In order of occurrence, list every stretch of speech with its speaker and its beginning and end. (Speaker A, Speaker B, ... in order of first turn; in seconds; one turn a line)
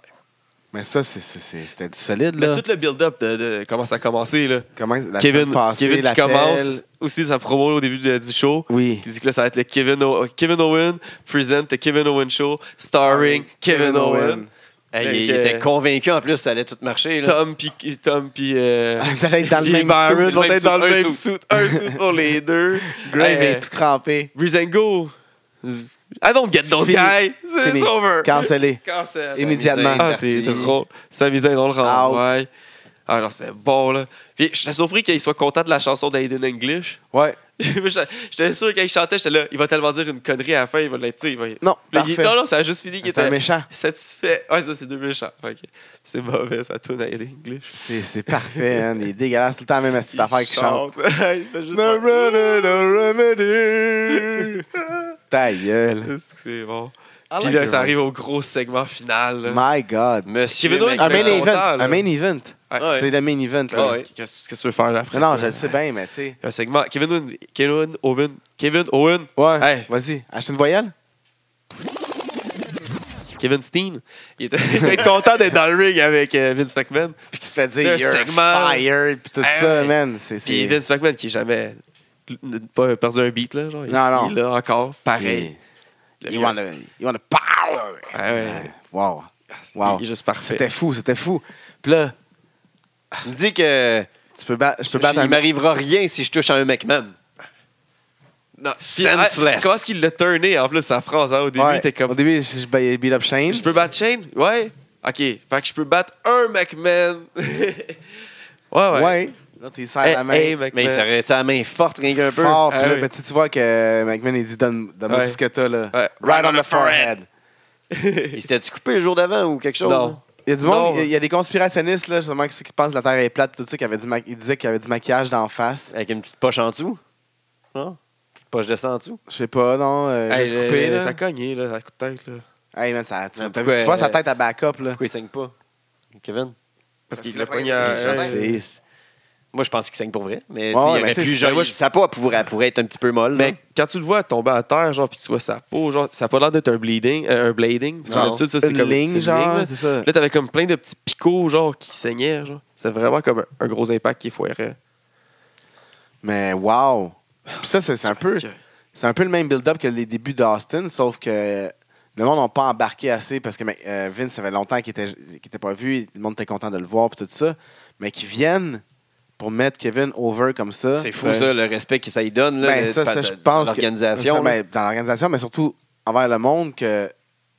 Speaker A: 0.7-2.6
Speaker B: 2.4-4.7
Speaker A: 4.8-6.8
Speaker B: 5.2-14.4
Speaker A: 8.7-9.1
Speaker A: 13.0-14.5
Speaker C: 14.9-17.4
Speaker B: 15.0-15.7
Speaker B: 17.2-23.6
Speaker A: 19.0-20.4
Speaker C: 20.1-21.2
Speaker A: 21.6-22.0
Speaker A: 22.9-24.3
Speaker B: 24.3-32.5
Speaker A: 26.7-28.8
Speaker A: 29.3-30.1
Speaker C: 29.3-30.8
Speaker A: 31.8-32.3
Speaker B: 33.1-37.0
Speaker A: 37.1-37.4
Speaker B: 37.6-48.9
Speaker A: 41.6-42.3
Speaker A: 43.0-43.7
Speaker A: 47.8-50.9
Speaker B: 50.1-53.1
Speaker A: 51.7-54.6
Speaker B: 54.1-55.0
Speaker A: 55.3-56.1
Speaker B: 56.0-59.6
Speaker A: 57.3-58.0
Speaker A: 59.5-60.3
Speaker C: 60.2-61.5
Speaker B: 60.6-62.0
Speaker A: 61.0-63.9
Speaker B: 62.7-63.1
Speaker C: 62.8-63.0
Speaker B: 63.7-65.7
Speaker C: 63.7-64.1
Speaker A: 65.1-66.3
Speaker B: 66.4-69.9
Speaker A: 69.3-70.9
Speaker B: 73.4-77.2
Speaker A: 74.8-75.1
Speaker A: 77.3-80.8
Speaker B: 77.8-78.8
Speaker B: 79.4-85.5
Speaker A: 83.9-84.4
Speaker A: 85.2-85.6
Speaker B: 86.2-86.6
Speaker A: 86.3-92.1
Speaker B: 88.1-88.7
Speaker B: 89.7-90.6
Speaker C: 93.2-94.1
Speaker A: 94.3-95.4
Speaker C: 94.9-97.2
Speaker B: 98.6-102.2
Speaker C: 98.8-99.9
Speaker A: 101.5-103.7
Speaker B: 103.5-108.0
Speaker B: 108.7-109.2
Speaker A: 108.9-110.6
Speaker B: 110.0-111.0
Speaker C: 110.7-112.6
Speaker A: 112.2-117.3
Speaker B: 112.7-113.1
Speaker B: 115.1-115.4
Speaker B: 115.9-117.1
Speaker B: 117.9-118.4
Speaker C: 118.3-120.2
Speaker B: 119.8-121.1
Speaker A: 120.4-125.9
Speaker C: 125.9-127.0
Speaker C: 127.7-129.2
Speaker A: 129.3-131.2
Speaker B: 130.3-132.4
Speaker A: 132.7-135.0
Speaker C: 133.3-134.2
Speaker C: 134.9-135.5
Speaker C: 136.1-136.5
Speaker B: 137.1-138.6
Speaker A: 137.1-138.4
Speaker C: 137.8-138.8
Speaker C: 139.5-143.6
Speaker A: 140.7-141.7
Speaker B: 143.3-154.8
Speaker C: 148.1-148.4
Speaker A: 148.1-150.1
Speaker A: 156.2-168.8
Speaker B: 157.5-158.6
Speaker A: 169.4-171.5
Speaker C: 171.0-174.6
Speaker A: 172.6-177.1